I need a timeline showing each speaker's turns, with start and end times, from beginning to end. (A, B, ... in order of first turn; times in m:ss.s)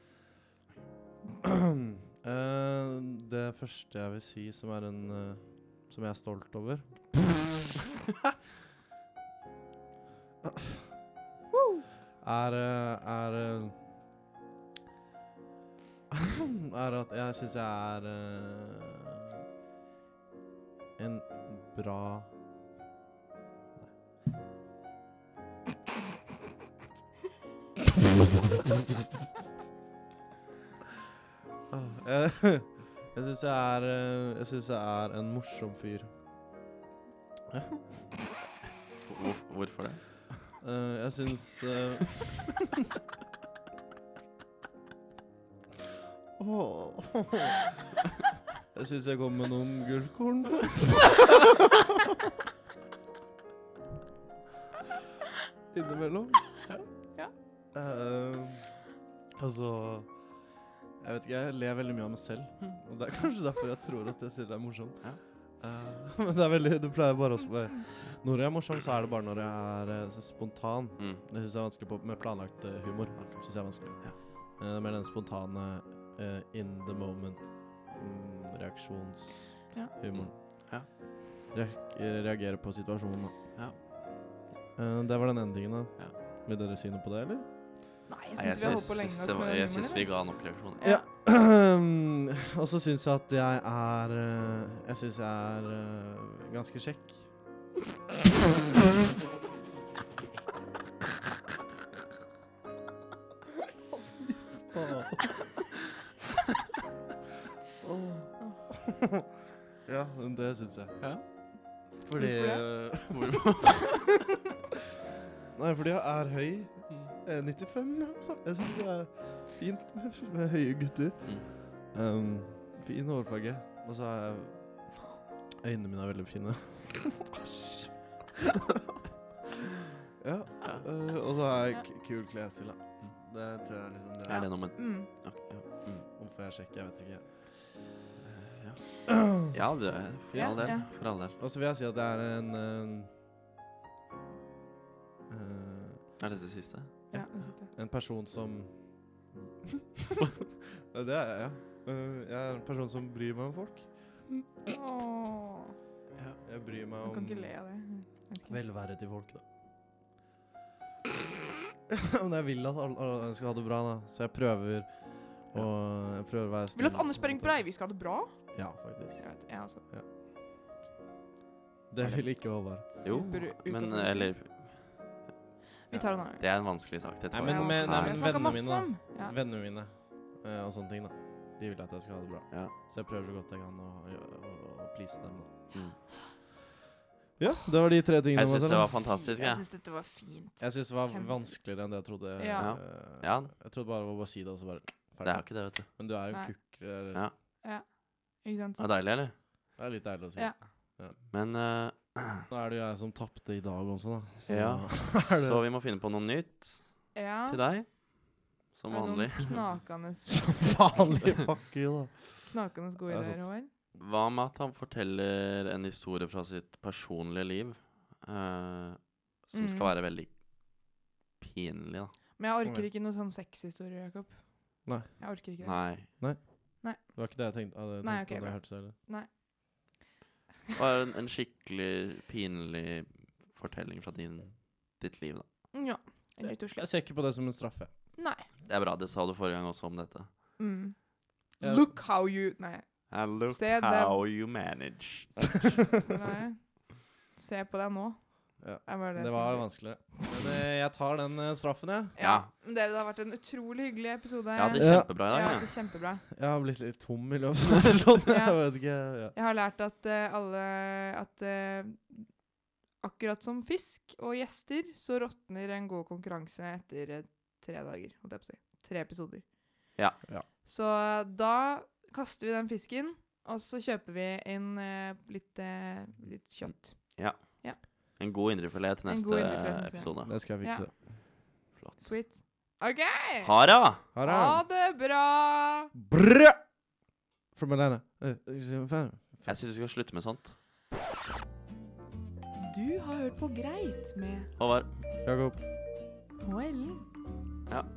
0:01.4-0:07.5 A
0:10.4-0:10.8 A
0:11.5-0:11.8 B
0:12.2-0:13.8 A
0:16.1-0:19.4 A
0:21.0-0:22.3 A
0:31.7-0:36.1 A
0:37.5-0:38.1 A
0:39.0-0:40.5 C
0:40.6-0:42.5 A
0:46.4-0:47.8 A
0:48.7-0:51.9 A
0:55.7-0:56.5 A
0:57.7-0:58.8 A
0:59.4-1:00.4 A
1:01.0-1:20.9 A
1:11.0-1:11.2 C
1:13.2-1:14.2 C
1:20.1-1:20.9 C
1:21.5-1:23.3 A
1:24.7-1:27.5 A
1:28.1-1:31.0 B
1:28.4-1:30.8 C
1:30.8-1:37.3 A
1:44.6-1:45.5 A
1:47.8-1:49.0 A
1:49.8-1:51.3 A
1:51.8-1:54.1 C
1:52.1-1:53.0 A
1:52.2-1:52.6 B
1:55.5-2:05.0 A
2:05.6-2:08.2 A
2:10.2-2:14.5 A
2:14.3-2:16.0 C
2:14.3-2:15.1 B
2:16.2-2:17.9 A
2:18.2-2:21.4 C
2:19.1-2:19.5 A
2:20.3-2:23.1 A
2:20.3-2:20.9 B
2:25.3-2:26.2 A
2:26.2-2:27.1 C
2:27.1-2:27.7 B
2:27.1-2:29.4 A
2:30.9-2:34.2 A
2:34.6-2:35.7 B
2:36.4-2:37.5 A
2:37.0-2:38.6 B
2:38.4-2:39.4 A
2:41.9-2:47.6 A
2:46.7-2:49.8 B
2:48.5-2:50.0 A
2:51.9-2:52.9 A
2:52.0-2:55.1 C
2:52.9-2:54.3 B
2:55.9-2:56.4 B
2:56.4-2:58.6 C
2:57.3-3:05.7 A
2:57.5-2:59.3 B
3:07.4-3:09.0 A
3:08.3-3:09.6 C
3:09.0-3:11.5 B
3:10.6-3:17.2 A
3:12.4-3:12.7 B
3:12.6-3:13.5 C
3:15.2-3:15.9 C
3:17.6-3:18.8 B
3:18.8-3:19.3 C
3:19.8-3:21.2 A
3:21.3-3:22.4 C
3:22.5-3:25.6 A
3:24.5-3:29.6 C
3:27.1-3:27.6 B
3:28.9-3:31.1 B
3:30.3-3:32.6 A
3:32.5-3:33.7 B
3:33.1-3:33.4 A
3:33.9-3:42.2 C
3:39.5-3:39.9 B
3:42.4-3:46.2 B
3:44.8-3:45.2 A
3:45.6-3:46.1 C
3:46.2-3:48.9 A
3:46.8-3:47.3 B
3:48.0-3:49.3 B
3:50.7-3:55.4 C
3:55.7-3:56.8 B
3:56.6-3:58.0 A
3:58.2-3:58.5 B
3:58.6-4:00.3 C
4:00.6-4:04.2 B
4:01.6-4:01.9 A
4:03.1-4:05.5 C
4:06.0-4:10.4 B
4:08.6-4:12.1 A
4:12.2-4:16.2 B
4:12.2-4:12.5 C
4:14.6-4:15.6 C
4:14.8-4:15.1 A
4:16.3-4:19.3 A
4:18.3-4:22.3 B
4:23.0-4:29.5 B
4:30.6-4:37.8 B
4:37.1-4:40.3 C
4:39.1-4:40.9 B
4:40.2-4:41.1 A
4:41.7-4:42.0 C
4:42.0-4:45.9 B
4:43.4-4:44.0 C
4:44.1-4:44.6 A
4:45.9-4:46.6 A
4:47.5-4:49.6 A
4:49.4-4:50.5 C
4:52.6-4:54.5 B
4:54.6-4:54.9 C
4:55.2-4:55.6 A
4:56.4-4:57.0 B